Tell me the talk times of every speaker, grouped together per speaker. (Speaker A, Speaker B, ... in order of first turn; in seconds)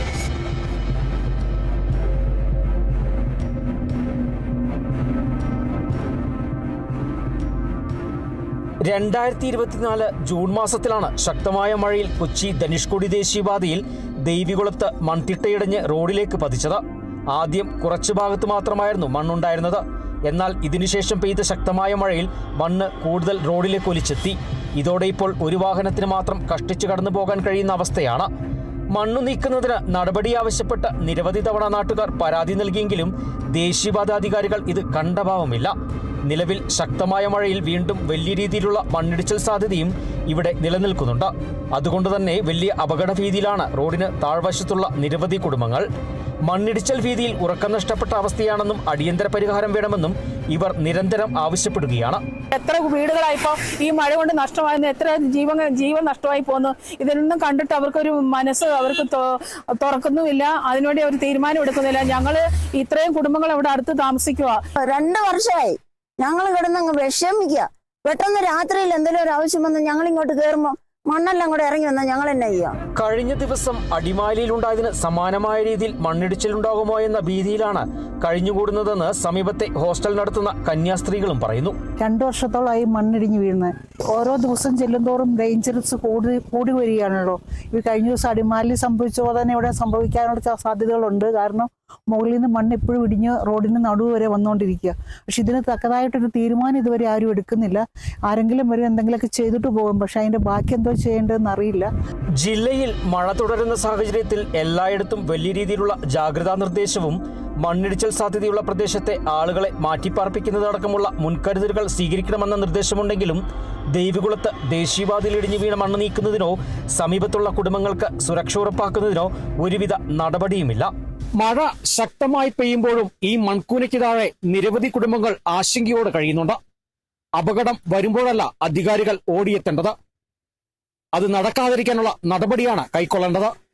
Speaker A: 8.8-28.3, 28.9-35.7, 36.2-45.9, 46.4-52.2, 72.9-81.8, 102.4-126.6, 127.4-129.9, 131.1-133.5
Speaker B: 52.5-64.6
Speaker C: 64.8-72.8
Speaker D: 82.0-101.9